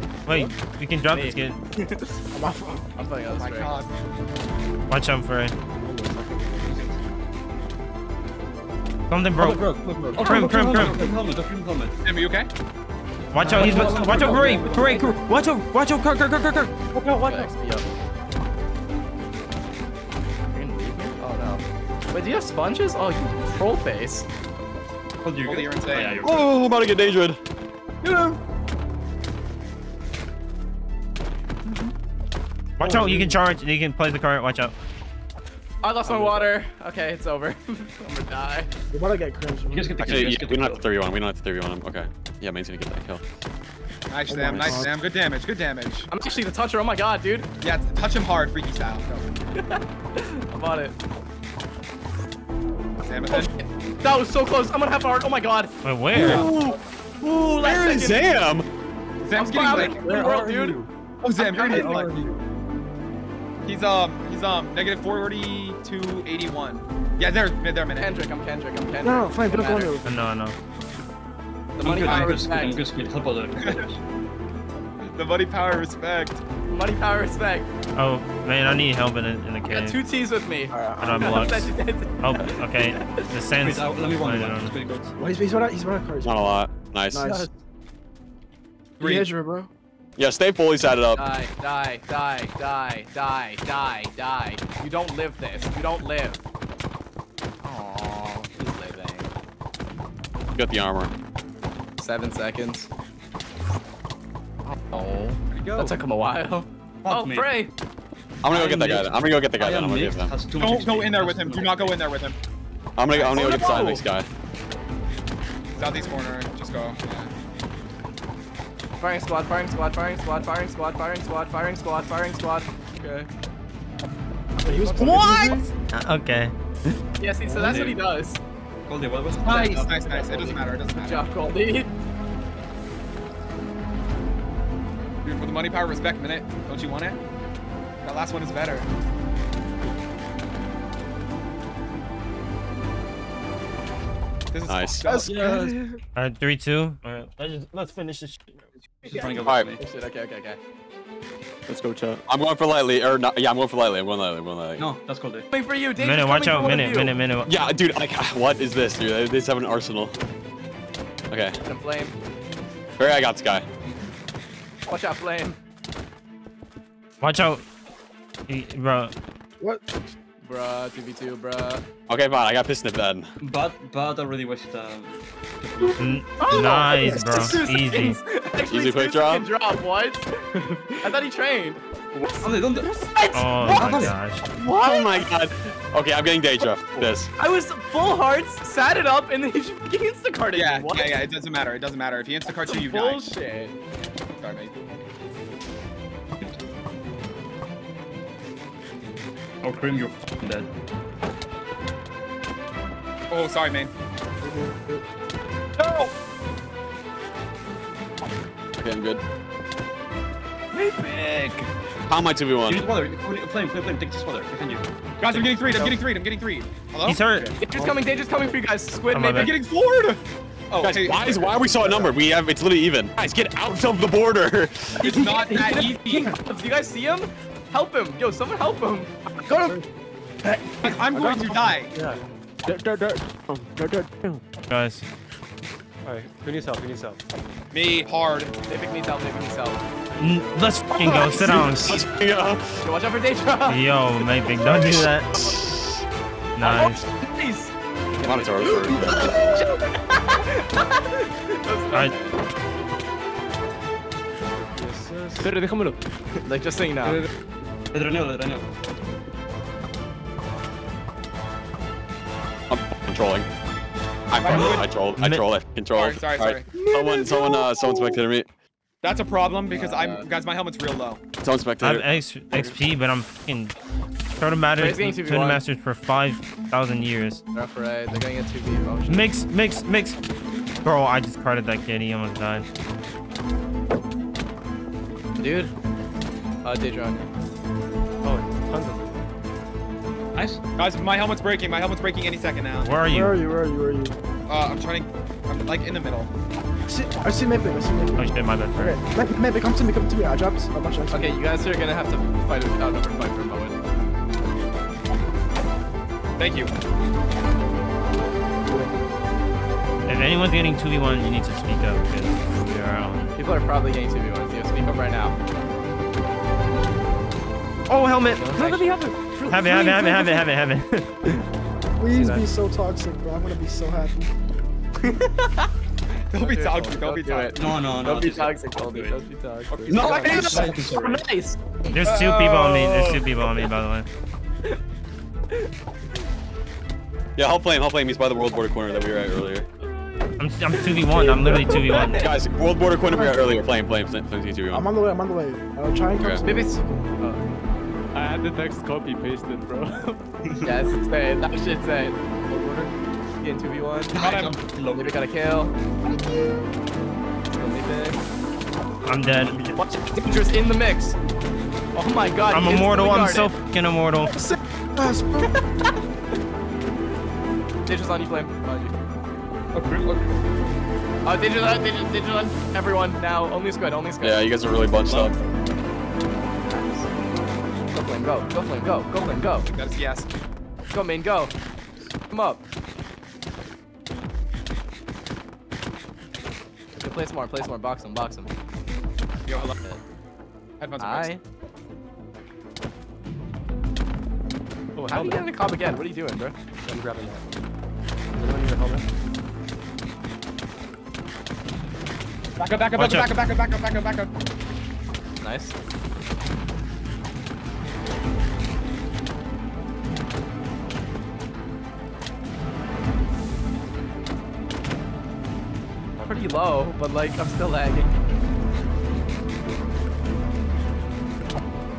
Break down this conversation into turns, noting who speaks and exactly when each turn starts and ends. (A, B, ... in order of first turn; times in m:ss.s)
0:00.3-0:01.6 A
0:00.3-0:00.5 B
0:01.1-0:02.2 C
0:02.3-0:02.9 B
0:03.0-0:03.9 C
0:03.3-0:03.9 D
0:04.9-0:05.6 A
0:05.8-0:06.7 E
0:06.6-0:06.9 F
0:09.1-0:11.1 A
0:09.4-0:11.1 E
0:10.0-0:12.0 F
0:12.0-0:12.5 D
0:13.3-0:16.8 A
0:13.4-0:15.1 F
0:13.5-0:14.1 E
0:13.8-0:15.0 C
0:17.0-0:17.8 C
0:20.5-0:24.3 C
0:25.2-0:26.7 F
0:25.4-0:26.3 D
0:26.2-0:27.4 G
0:28.0-0:28.4 B
0:32.8-0:34.7 A
0:32.8-0:33.4 B
0:35.8-0:38.7 C
0:36.2-0:36.5 E
0:38.9-0:40.0 B
0:39.7-0:40.9 F
0:40.0-0:43.2 G
0:44.1-0:46.1 D
0:44.3-0:45.0 B
0:46.1-0:47.5 C
0:47.6-0:49.3 D
0:49.6-0:51.0 C
0:53.0-0:53.5 D
0:53.3-0:58.4 C
0:55.8-0:56.5 A
0:56.1-0:56.6 G
0:57.5-0:58.7 G
0:59.2-1:00.1 D
0:59.3-1:00.8 C
0:59.6-1:00.9 E
1:01.2-1:02.1 D
1:01.6-1:02.0 C
1:01.7-1:02.0 B
1:01.8-1:02.3 E
1:03.6-1:08.3 D
1:07.9-1:10.0 C
1:09.0-1:10.2 B
1:10.0-1:10.6 A
1:11.8-1:12.8 C
1:11.8-1:14.0 F
1:12.0-1:12.4 D
1:13.6-1:13.8 D
1:15.1-1:16.4 D
1:16.6-1:17.7 C
1:18.0-1:20.0 A
1:19.6-1:23.4 C
1:20.7-1:21.6 B
1:21.0-1:25.1 A
1:23.6-1:25.0 F
1:25.2-1:26.6 B
1:26.2-1:27.3 G
1:27.1-1:27.5 B
1:29.0-1:29.7 B
1:29.0-1:29.3 D
1:30.2-1:31.2 G
1:31.1-1:36.4 C
1:37.6-1:39.3 C
1:40.6-1:41.1 G
1:42.0-1:42.9 C
1:44.6-1:47.7 C
1:47.0-1:47.6 F
1:48.4-1:50.3 G
1:48.5-1:52.0 F
1:50.6-1:52.4 D
1:53.0-1:54.3 G
1:53.1-1:54.1 C
1:55.8-1:57.3 D
1:55.8-1:56.2 C
1:59.0-2:03.3 C
2:04.6-2:05.7 B
2:04.7-2:05.4 D
2:04.9-2:07.0 A
2:07.2-2:08.4 C
2:07.4-2:07.9 B
2:07.6-2:08.0 F
2:08.9-2:10.5 F
2:09.4-2:11.3 D
2:09.4-2:11.9 C
2:15.2-2:17.2 D
2:18.0-2:18.9 D
2:24.5-2:25.4 D
2:24.6-2:25.1 G
2:25.0-2:26.0 B
2:25.4-2:25.7 E
2:26.1-2:28.5 A
2:29.0-2:29.8 F
2:29.0-2:30.6 C
2:29.4-2:29.7 G
2:31.7-2:32.2 E
2:32.3-2:34.9 G
2:34.8-2:35.5 F
2:35.5-2:37.2 C
2:36.0-2:37.5 A
2:37.4-2:40.1 G
2:41.3-2:41.6 G
2:41.6-2:42.2 C
2:43.0-2:43.6 G
2:44.9-2:45.6 C
2:47.2-2:47.6 A
2:48.5-2:49.1 A
2:49.6-2:49.9 B
2:50.4-2:51.8 C
2:52.1-2:53.3 G
2:53.4-2:56.1 F
2:56.0-2:58.2 A
2:56.4-3:05.3 C
2:56.5-2:57.6 B
2:58.7-2:59.5 G
3:02.4-3:04.2 F
3:03.3-3:04.5 A
3:04.8-3:07.3 G
3:06.6-3:11.3 C
3:10.5-3:13.3 D
3:12.5-3:13.8 C
3:14.4-3:14.8 D
3:19.6-3:20.7 F
3:23.3-3:23.9 D
3:24.4-3:25.0 B
3:25.8-3:26.1 D
3:28.8-3:29.2 G
3:30.7-3:31.7 C
3:32.1-3:32.9 G
3:32.6-3:35.8 F
3:35.2-3:37.2 D
3:35.6-3:35.9 C
3:37.0-3:37.5 A
3:37.6-3:39.6 C
3:39.1-3:39.5 A
3:39.3-3:42.2 D
3:40.8-3:45.1 G
3:45.0-3:49.2 C
3:45.0-3:46.3 D
3:49.3-3:49.8 B
3:50.4-3:51.8 B
3:50.8-3:51.9 D
3:51.9-3:52.2 E
3:52.6-3:54.4 B
3:54.7-3:55.0 A
3:56.0-3:57.2 E
3:57.7-3:58.5 D
3:58.7-3:59.8 C
4:00.2-4:02.0 A
4:00.9-4:02.6 G
4:02.8-4:04.5 C
4:03.7-4:05.4 A
4:04.5-4:06.0 G
4:06.6-4:07.0 A
4:06.6-4:12.4 C
4:08.2-4:09.5 G
4:14.7-4:16.0 E
4:16.4-4:17.3 C
4:17.9-4:18.7 F
4:22.7-4:23.5 G
4:24.3-4:28.5 G
4:24.4-4:25.0 D
4:25.2-4:25.4 A
4:25.9-4:26.7 D
4:26.7-4:28.2 C
4:29.0-4:31.2 D
4:29.7-4:30.3 C
4:31.4-4:32.7 G
4:31.8-4:33.7 A
4:34.4-4:37.4 A
4:34.8-4:35.6 C
4:37.5-4:39.4 C
4:39.1-4:40.2 A
4:40.8-4:42.7 A
4:45.4-4:45.7 C
4:46.6-4:47.3 C
4:48.2-4:49.1 E
4:50.4-4:50.6 F
4:50.8-4:53.0 D
4:52.8-4:53.4 A
4:53.0-4:54.2 B
4:54.5-4:56.3 D
4:56.9-5:01.4 B
4:58.2-4:59.0 A
5:01.1-5:03.8 C
5:06.4-5:06.7 D
5:08.6-5:09.0 B
5:10.1-5:13.4 A
5:13.4-5:15.4 C
5:17.9-5:18.7 A
5:18.4-5:18.9 C
5:18.5-5:20.4 E
5:19.5-5:21.4 A
5:22.0-5:24.3 B
5:22.1-5:22.5 E
5:25.0-5:25.7 C
5:26.3-5:27.9 D
5:26.3-5:32.0 C
5:27.6-5:29.2 F
5:29.9-5:31.3 F
5:29.9-5:30.8 D
5:31.9-5:34.1 A
5:32.0-5:33.4 D
5:37.4-5:39.7 G
5:40.4-5:42.3 A
5:41.0-5:42.3 C
5:41.2-5:42.0 B
5:41.9-5:44.9 G
5:43.0-5:43.6 B
5:44.7-5:47.0 B
5:46.4-5:47.3 C
5:48.1-5:50.2 E
5:50.6-5:54.2 C
5:54.1-5:55.2 F
5:54.1-5:54.6 D
5:54.9-5:55.7 C
5:57.5-5:58.2 C
5:59.0-5:59.7 A
5:59.5-5:59.8 F
5:59.7-6:01.2 C
6:01.9-6:03.6 C
6:02.5-6:04.4 A
6:04.2-6:05.6 B
6:07.9-6:08.9 C
6:09.7-6:10.3 F
6:11.2-6:14.5 C
6:14.2-6:15.3 G
6:15.1-6:15.4 C
6:16.4-6:17.2 C
6:17.9-6:19.7 C
6:19.7-6:20.3 D
6:20.9-6:21.5 C
6:22.3-6:22.6 C
6:27.0-6:28.5 C
6:29.5-6:29.8 D
6:29.5-6:30.0 C
6:30.8-6:31.3 D
6:31.0-6:31.4 C
6:34.9-6:35.6 E
6:35.1-6:36.6 C
6:36.8-6:37.4 E
6:38.3-6:39.1 E
6:42.6-6:44.3 D
6:42.9-6:43.3 A
6:45.4-6:45.7 C
6:56.2-6:56.5 E
6:56.2-6:58.1 C